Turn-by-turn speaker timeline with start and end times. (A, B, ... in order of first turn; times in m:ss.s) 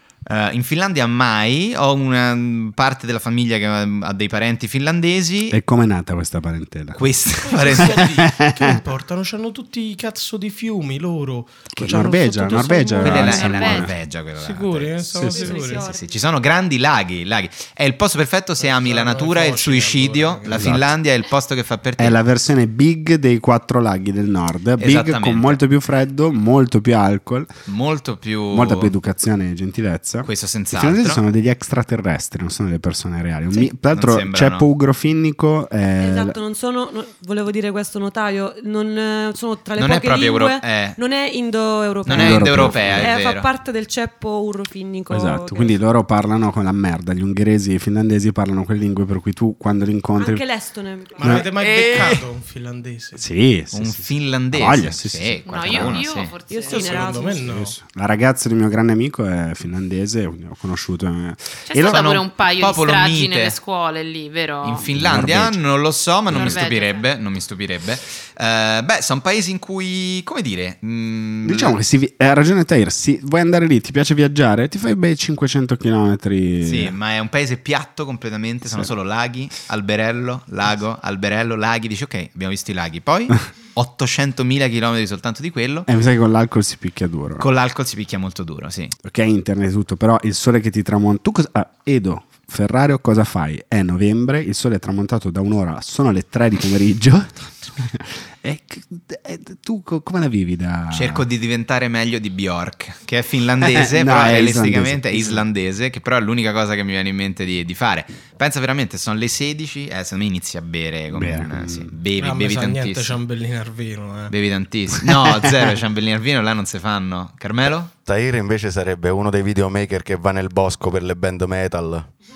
0:00.3-0:05.6 A
0:05.5-0:07.0 B
0:07.0-0:08.2 A
0:07.4-0:13.4 C
0:07.8-0:08.8 B
0:11.8-0:13.9 B
0:11.9-0:13.4 D
0:13.0-0:22.2 A
0:13.1-0:13.9 E
0:14.4-0:16.0 C
0:15.2-0:15.5 B
0:15.2-0:16.1 D
0:18.6-0:20.8 C
0:20.5-0:20.8 B
0:22.0-0:27.5 B
0:24.8-0:25.6 A
0:27.7-0:28.9 A
0:28.5-0:36.4 B
0:30.3-0:31.2 A
0:33.9-0:34.7 A
0:36.0-0:45.7 D
0:39.8-0:41.0 A
0:42.1-0:43.5 A
0:42.1-0:43.1 B
0:45.1-0:50.4 B
0:50.2-0:51.5 D
0:51.2-0:53.2 C
0:51.2-0:51.5 B
0:51.6-0:52.2 A
0:53.2-0:56.0 B
0:53.7-0:56.3 A
0:55.5-0:57.2 E
0:56.5-0:57.5 D
0:56.7-0:57.8 C
0:57.4-1:02.1 B
1:01.7-1:04.9 E
1:01.8-1:03.6 A
1:04.6-1:11.8 A
1:04.9-1:05.6 B
1:06.3-1:06.6 B
1:06.3-1:07.1 E
1:11.4-1:17.0 B
1:16.6-1:25.9 A
1:25.9-1:27.5 B
1:27.4-1:29.0 A
1:29.0-1:41.2 B
1:40.9-1:53.2 A
1:43.6-1:45.4 B
1:51.1-1:51.9 B
1:52.2-1:54.3 C
1:54.3-1:57.9 A
1:55.0-1:55.7 B
1:58.1-2:02.1 F